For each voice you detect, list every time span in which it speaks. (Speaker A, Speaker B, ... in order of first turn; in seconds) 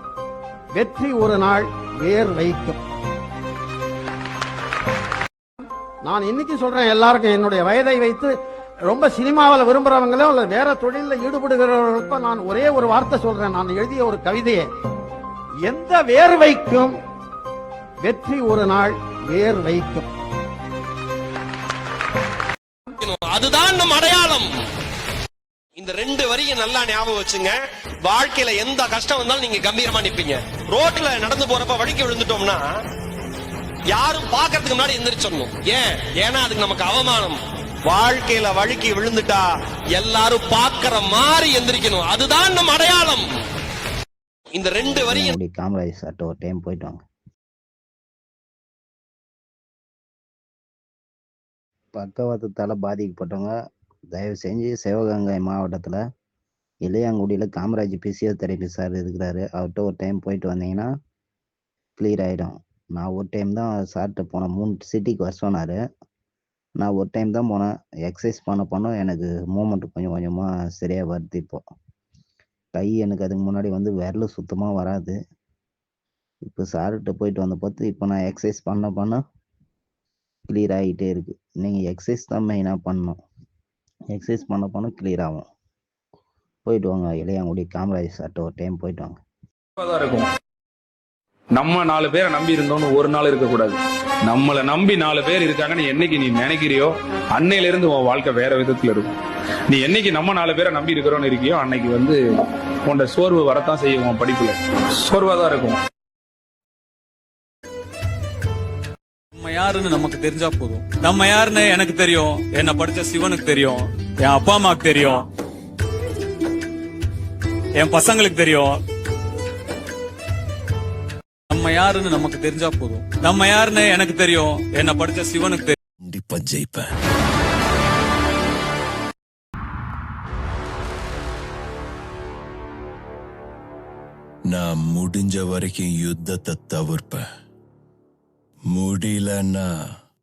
Speaker A: 0.7-2.8, 6.0-8.3, 8.9-14.6, 15.6-16.9, 18.0-20.1
Speaker B: 23.0-24.5, 25.8-32.6, 33.9-39.4, 40.0-43.2, 44.5-45.3
Speaker C: 45.1-47.0, 51.9-53.5, 54.1-56.0, 56.9-60.9, 62.0-65.8, 66.8-71.6, 72.7-75.2, 76.5-79.2, 80.5-83.2, 84.1-85.4, 86.7-89.2
Speaker D: 89.8-90.3, 91.6-99.1, 99.7-102.2, 102.9-105.8
Speaker E: 109.4-115.2, 117.8-118.8, 121.5-125.8
Speaker F: 126.0-126.9, 134.5-137.2, 138.7-139.7